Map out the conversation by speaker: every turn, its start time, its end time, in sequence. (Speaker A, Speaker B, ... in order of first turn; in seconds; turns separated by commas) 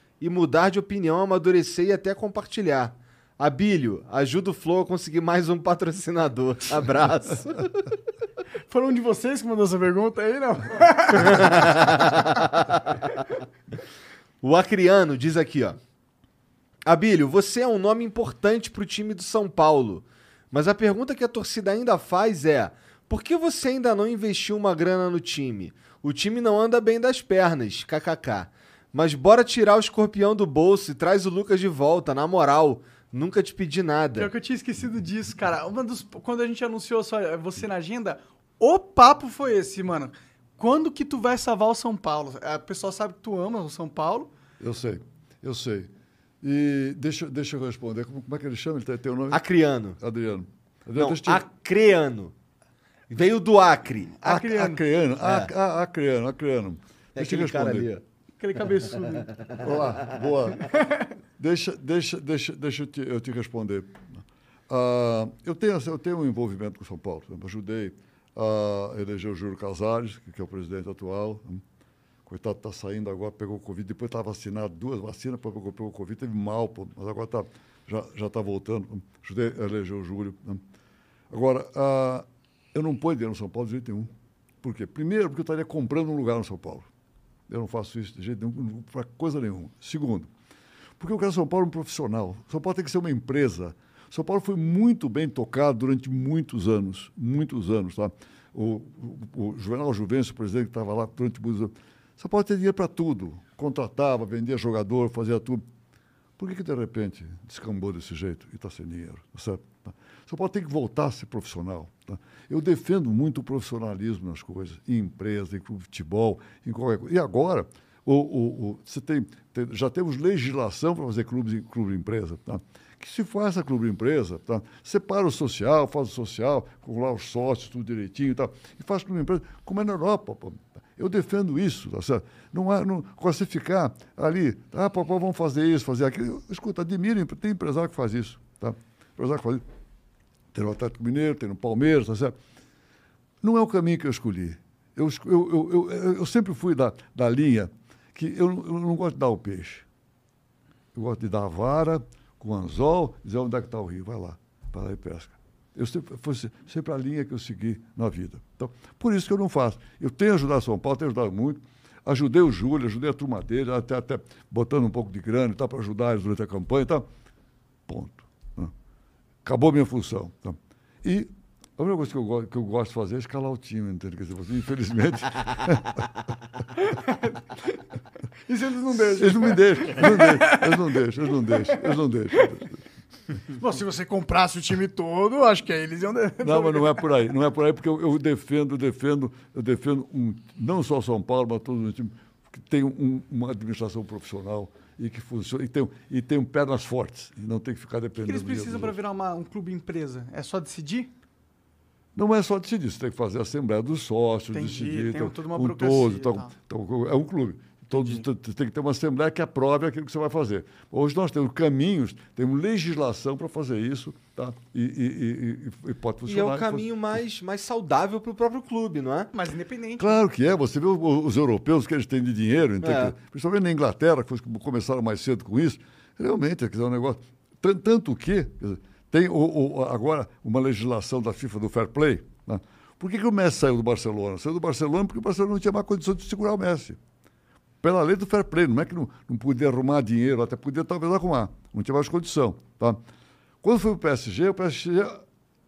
Speaker A: 0.2-7.7, Speaker B: 8.7-11.4, Speaker A: 11.1-13.2, Speaker A: 14.4-15.8, Speaker A: 16.9-34.3, Speaker B: 34.2-44.3, Speaker C: 44.6-45.9, Speaker C: 46.4-49.4, Speaker A: 49.3-50.0, Speaker C: 50.0-51.4, Speaker A: 50.9-52.3, Speaker A: 53.1-54.2, Speaker B: 54.2-54.8, Speaker C: 54.2-57.9, Speaker A: 55.2-55.5, Speaker A: 57.1-58.0, Speaker B: 58.4-59.3, Speaker C: 59.6-60.7, Speaker C: 61.4-64.0, Speaker C: 64.7-71.6, Speaker C: 72.2-80.6, Speaker C: 81.3-84.1, Speaker C: 84.6-86.9, Speaker C: 87.5-90.3, Speaker C: 91.0-105.6, Speaker C: 106.4-139.6, Speaker C: 140.5-142.3, Speaker C: 143.4-149.8, Speaker C: 150.9-167.1, Speaker C: 167.9-168.7, Speaker C: 169.4-176.1, Speaker B: 176.9-177.2, Speaker B: 178.5-182.5, Speaker C: 179.1-182.8, Speaker B: 183.5-187.1, Speaker C: 186.4-198.9, Speaker B: 198.2-201.1, Speaker C: 202.1-216.9, Speaker B: 204.5-206.5, Speaker B: 207.9-208.2, Speaker A: 216.2-219.3, Speaker B: 219.3-220.2, Speaker C: 220.0-237.0, Speaker A: 222.8-223.1, Speaker C: 237.8-243.0, Speaker C: 243.6-245.2